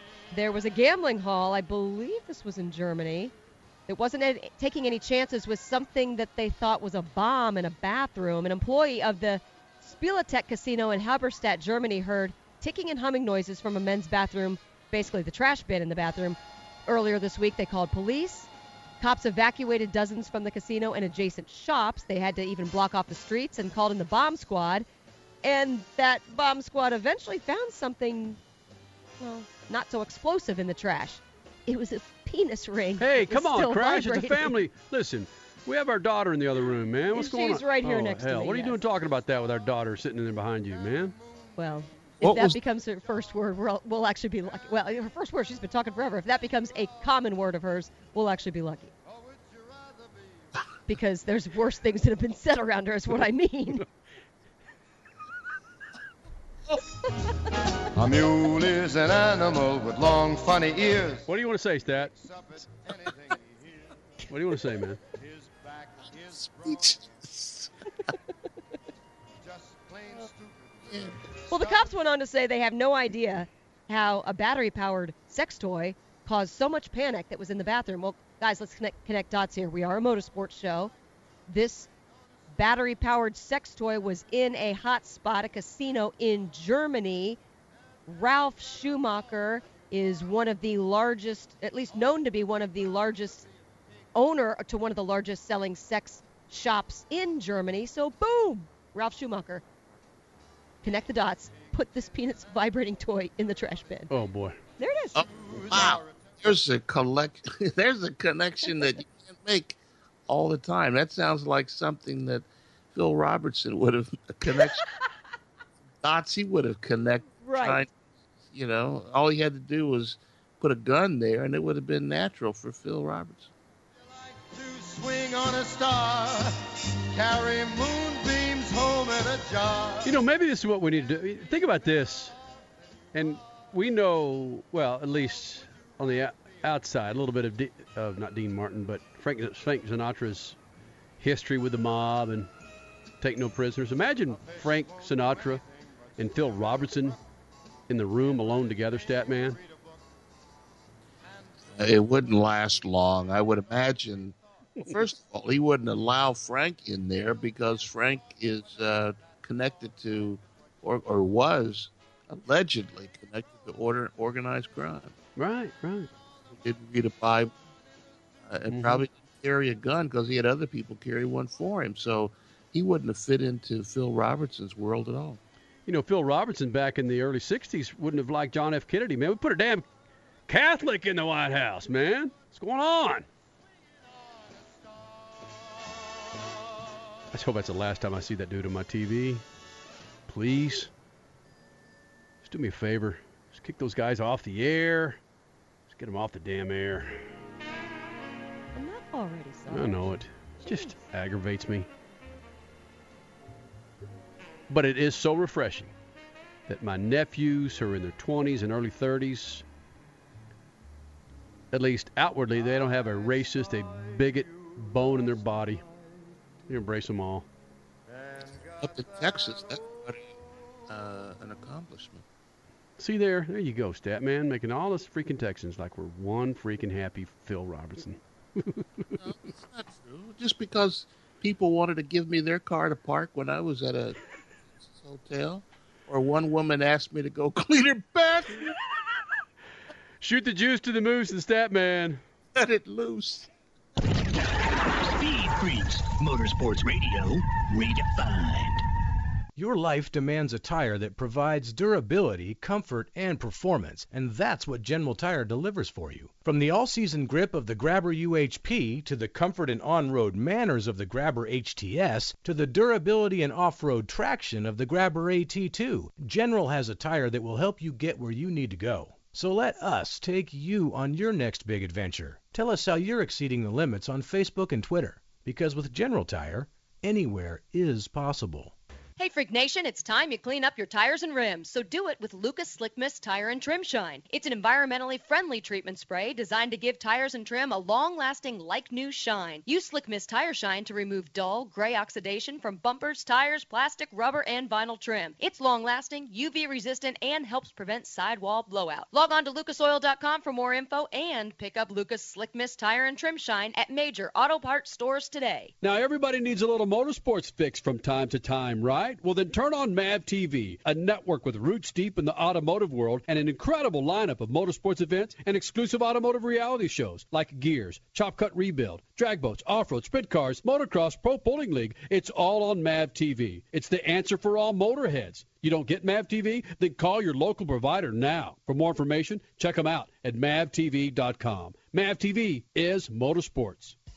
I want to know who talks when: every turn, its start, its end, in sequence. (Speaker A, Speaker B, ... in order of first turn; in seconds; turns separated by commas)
Speaker A: 0.3-3.3, Speaker A: 3.9-18.5, Speaker A: 19.0-24.9, Speaker A: 25.4-28.4, Speaker A: 29.2-34.5, Speaker B: 33.0-41.1, Speaker A: 37.1-38.8, Speaker A: 41.5-48.9, Speaker C: 42.2-42.6, Speaker A: 50.9-53.8, Speaker D: 58.0-61.2, Speaker B: 61.3-62.1, Speaker B: 64.3-65.0, Speaker C: 66.2-67.7, Speaker D: 69.6-70.7, Speaker C: 70.9-71.2, Speaker A: 71.5-80.9, Speaker D: 71.5-71.8, Speaker A: 81.5-81.9, Speaker A: 82.5-87.4, Speaker A: 88.0-93.5, Speaker A: 94.1-99.6, Speaker A: 100.8-104.1, Speaker B: 104.1-104.6, Speaker A: 104.8-105.2, Speaker C: 105.1-114.8, Speaker C: 116.0-117.9, Speaker A: 117.4-117.8, Speaker C: 118.5-123.5, Speaker D: 124.6-130.2, Speaker B: 130.0-132.3, Speaker B: 133.1-140.6, Speaker B: 141.2-142.5, Speaker B: 143.2-145.6, Speaker B: 146.2-147.2, Speaker B: 147.9-149.6, Speaker C: 151.8-165.1, Speaker B: 165.3-166.1, Speaker C: 166.5-167.5, Speaker C: 168.5-175.4, Speaker B: 168.7-169.0, Speaker B: 175.9-179.8, Speaker B: 180.5-183.3, Speaker B: 187.3-189.4, Speaker B: 190.3-190.9, Speaker B: 192.4-195.2, Speaker B: 195.9-197.2, Speaker A: 198.7-200.9, Speaker B: 199.7-201.9, Speaker B: 204.7-205.9, Speaker B: 206.7-209.6, Speaker B: 211.7-215.8, Speaker B: 216.7-217.4, Speaker C: 218.8-220.3, Speaker C: 220.9-222.2, Speaker B: 223.0-229.0, Speaker C: 229.2-234.2, Speaker C: 234.8-238.7, Speaker B: 240.2-242.2, Speaker C: 242.6-243.5, Speaker E: 245.0-248.8, Speaker F: 249.6-278.7, Speaker A: 279.2-305.7, Speaker B: 305.8-333.9